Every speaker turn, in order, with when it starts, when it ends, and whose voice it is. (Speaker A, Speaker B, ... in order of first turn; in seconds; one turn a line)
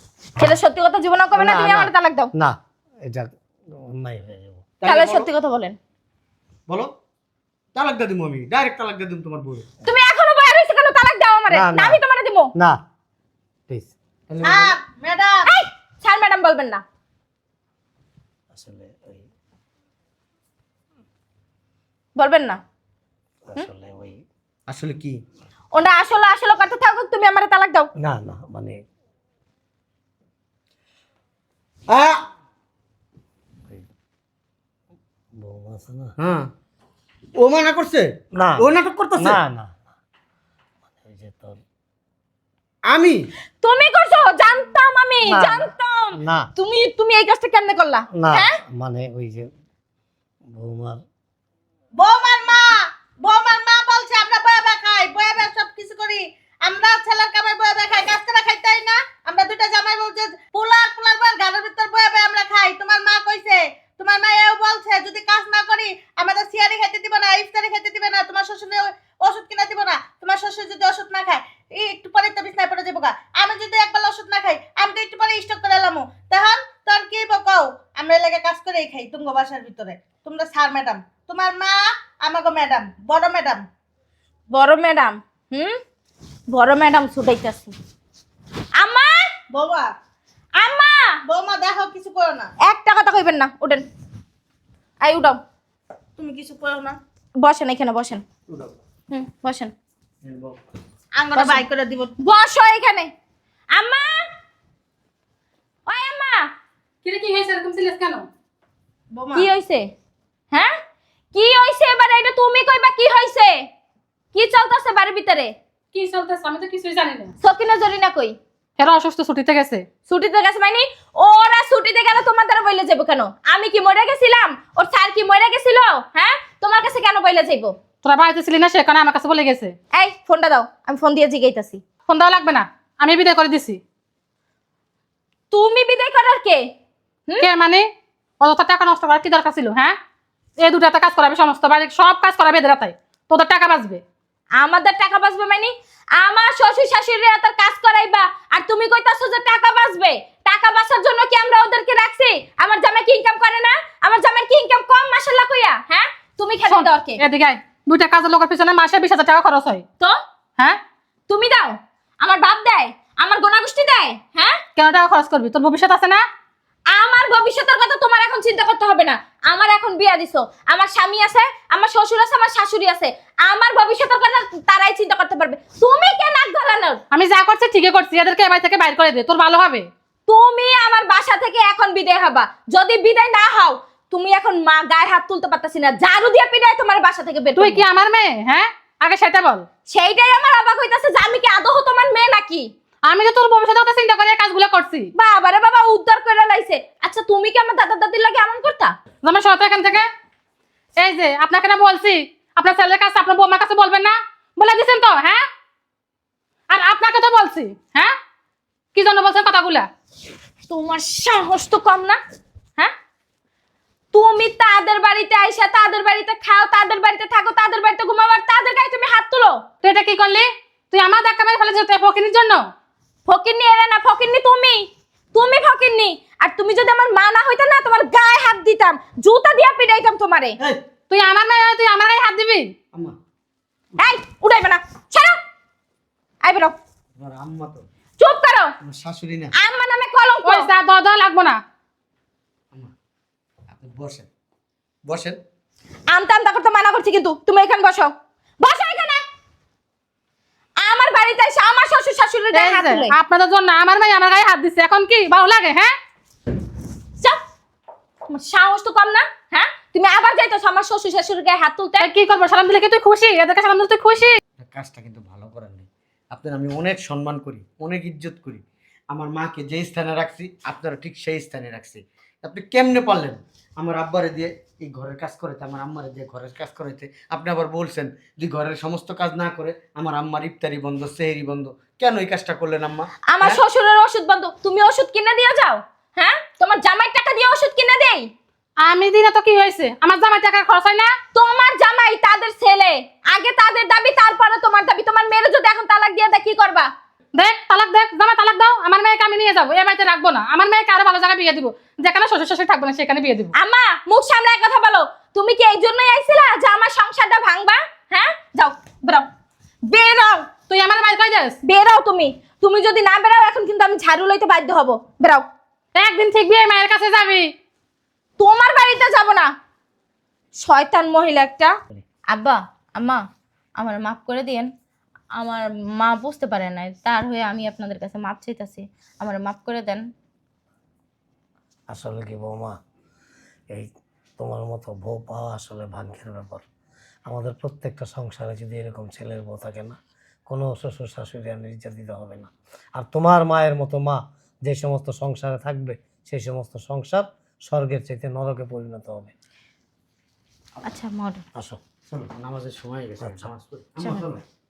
Speaker A: 0.4-2.3
Speaker B: 1.3-4.7
Speaker C: 4.8-5.3
Speaker A: 4.8-5.8
Speaker C: 7.7-9.7
Speaker A: 9.8-12.5
Speaker B: 11.5-12.0
Speaker B: 12.6-12.8
Speaker B: 13.7-13.9
Speaker C: 14.3-14.7
Speaker D: 14.4-15.5
Speaker A: 15.4-16.8
Speaker B: 18.5-19.2
Speaker A: 22.1-22.6
Speaker B: 23.4-24.2
Speaker C: 24.7-25.2
Speaker A: 25.7-27.9
Speaker B: 28.0-28.8
Speaker C: 31.9-32.2
Speaker B: 35.4-36.1
Speaker C: 36.2-36.5
Speaker C: 37.4-39.4
Speaker B: 38.3-39.9
Speaker B: 40.9-41.6
Speaker C: 42.9-43.2
Speaker A: 43.6-48.5
Speaker B: 45.2-46.5
Speaker B: 48.1-49.5
Speaker B: 50.5-51.0
Speaker D: 52.0-83.6
Speaker A: 84.5-85.8
Speaker A: 86.5-87.7
Speaker A: 88.8-89.2
Speaker D: 89.5-89.9
Speaker A: 90.6-91.2
Speaker D: 91.3-92.5
Speaker A: 92.6-93.8
Speaker A: 95.0-95.4
Speaker D: 96.2-97.0
Speaker A: 97.4-98.2
Speaker C: 98.5-98.8
Speaker A: 99.1-99.7
Speaker C: 100.2-100.6
Speaker D: 101.2-102.1
Speaker A: 101.3-101.7
Speaker A: 102.2-103.1
Speaker A: 103.7-104.2
Speaker A: 105.9-106.5
Speaker E: 107.0-108.3
Speaker D: 109.1-109.5
Speaker A: 109.3-109.9
Speaker A: 111.3-113.6
Speaker A: 114.3-115.5
Speaker E: 115.9-117.3
Speaker A: 117.4-118.4
Speaker E: 118.8-119.9
Speaker A: 120.0-127.8
Speaker E: 128.0-129.8
Speaker A: 129.9-131.8
Speaker E: 132.1-133.8
Speaker A: 135.5-136.6
Speaker E: 137.4-137.9
Speaker E: 138.4-139.9
Speaker E: 140.6-144.0
Speaker A: 144.6-157.2
Speaker E: 156.7-159.8
Speaker A: 161.3-164.6
Speaker E: 164.8-166.2
Speaker A: 166.9-177.0
Speaker E: 177.1-179.9
Speaker A: 180.3-187.8
Speaker E: 187.6-189.6
Speaker A: 189.9-192.7
Speaker E: 193.1-195.1
Speaker A: 195.2-198.9
Speaker E: 199.2-200.1
Speaker E: 201.0-205.4
Speaker E: 206.7-208.1
Speaker E: 208.9-209.9
Speaker A: 210.7-212.2
Speaker A: 214.1-219.6
Speaker E: 219.8-222.7
Speaker A: 223.3-230.6
Speaker E: 231.1-232.7
Speaker A: 234.0-235.4
Speaker A: 236.4-236.7
Speaker C: 237.2-237.8
Speaker A: 238.2-238.7
Speaker C: 238.8-239.5
Speaker A: 239.6-240.7
Speaker E: 240.4-241.6
Speaker C: 243.7-244.3
Speaker C: 245.1-245.4
Speaker A: 246.1-249.3
Speaker A: 250.8-253.1
Speaker E: 252.5-255.9
Speaker A: 258.3-262.1
Speaker E: 262.0-264.4
Speaker C: 264.6-283.6
Speaker A: 283.3-288.3
Speaker E: 288.8-291.1
Speaker A: 291.3-296.9
Speaker E: 297.4-303.5
Speaker A: 303.5-309.3
Speaker A: 309.9-310.5
Speaker E: 310.7-311.6
Speaker A: 311.6-315.4
Speaker E: 315.9-317.5
Speaker A: 318.4-319.5
Speaker A: 320.6-321.8
Speaker A: 322.3-323.2
Speaker A: 323.8-324.7
Speaker A: 325.4-330.0
Speaker B: 331.9-332.8
Speaker B: 333.7-336.6
Speaker B: 337.3-349.3
Speaker A: 350.8-351.4
Speaker C: 352.1-354.4
Speaker B: 353.2-353.5
Speaker A: 354.0-354.3